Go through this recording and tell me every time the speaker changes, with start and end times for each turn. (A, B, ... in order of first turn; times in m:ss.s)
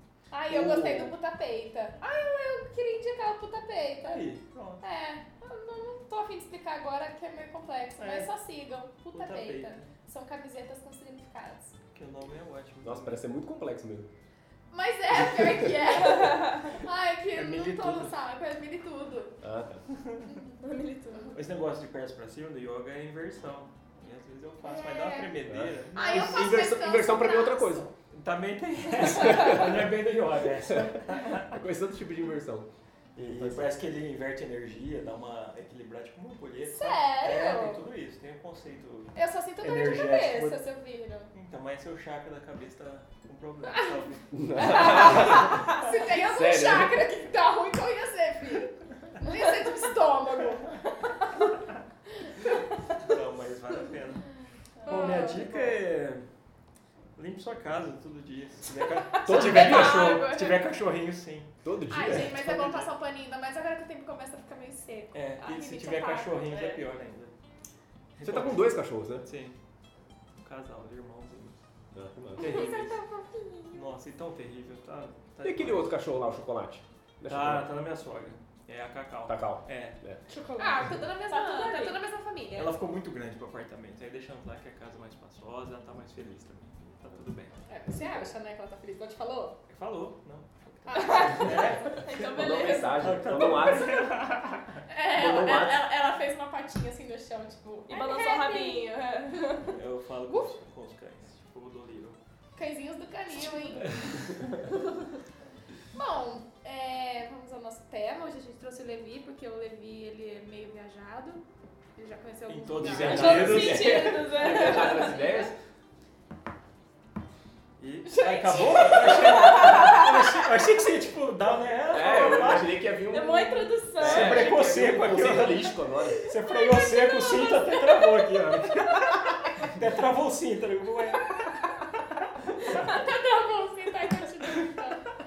0:00.3-0:04.3 A
0:00.5-0:01.1 B
0:04.1-0:04.8 B
0:04.8-0:11.8 A
0:08.0-0:08.3 B
0:09.1-0:09.9 B
0:11.9-0:13.2 B
0:12.8-0:14.1 C
0:14.7-0:19.4 A
0:16.1-0:16.6 D
0:17.3-0:18.1 B
0:19.4-0:19.8 C
0:20.0-0:20.3 B
0:20.6-0:21.4 D
0:21.3-0:26.5 B
0:24.6-0:25.4 A
0:25.5-0:27.9 C
0:25.9-0:27.9 A
0:28.1-0:31.5 B
0:29.0-0:29.9 C
0:30.7-0:32.7 C
0:33.2-0:40.6 B
0:33.3-0:33.7 C
0:36.6-0:37.8 A
0:39.2-0:41.3 A
0:41.3-0:45.6 B
0:44.3-0:46.9 C
0:44.6-0:50.8 A
0:52.9-0:54.3 B
0:54.8-0:55.7 D
0:54.9-0:55.5 A
0:54.9-0:56.2 B
0:57.2-1:01.5 B
0:59.1-1:00.7 D
0:59.2-1:00.2 C
1:01.6-1:02.8 C
1:01.9-1:05.7 A
1:02.1-1:02.9 B
1:05.1-1:07.3 B
1:05.4-1:06.8 D
1:08.2-1:09.6 B
1:08.2-1:09.3 C
1:10.4-1:11.6 B
1:11.9-1:12.7 C
1:12.4-1:13.0 B
1:12.4-1:13.8 A
1:13.7-1:16.0 B
1:15.4-1:17.7 C
1:17.3-1:20.0 B
1:19.3-1:20.2 C
1:20.3-1:22.8 A
1:21.3-1:22.0 D
1:22.6-1:27.6 B
1:27.7-1:29.6 A
1:29.7-1:34.7 B
1:30.9-1:32.0 A
1:31.4-1:33.1 D
1:32.1-1:34.2 C
1:34.9-1:38.9 A
1:35.1-1:35.8 C
1:37.9-1:39.7 D
1:39.7-1:42.2 B
1:40.3-1:40.5 A
1:42.6-1:44.2 A
1:43.9-1:44.3 B
1:45.9-1:51.4 A
1:52.0-1:53.4 A
1:52.5-1:54.3 B
1:52.8-1:55.6 C
1:53.0-1:55.5 D
1:54.6-1:55.2 A
1:57.8-2:02.7 B
1:58.1-2:00.4 D
1:58.2-1:58.8 A
2:01.9-2:06.2 C
2:03.1-2:04.5 D
2:04.0-2:05.7 B
2:06.3-2:11.4 B
2:06.4-2:08.3 D
2:12.6-2:15.0 A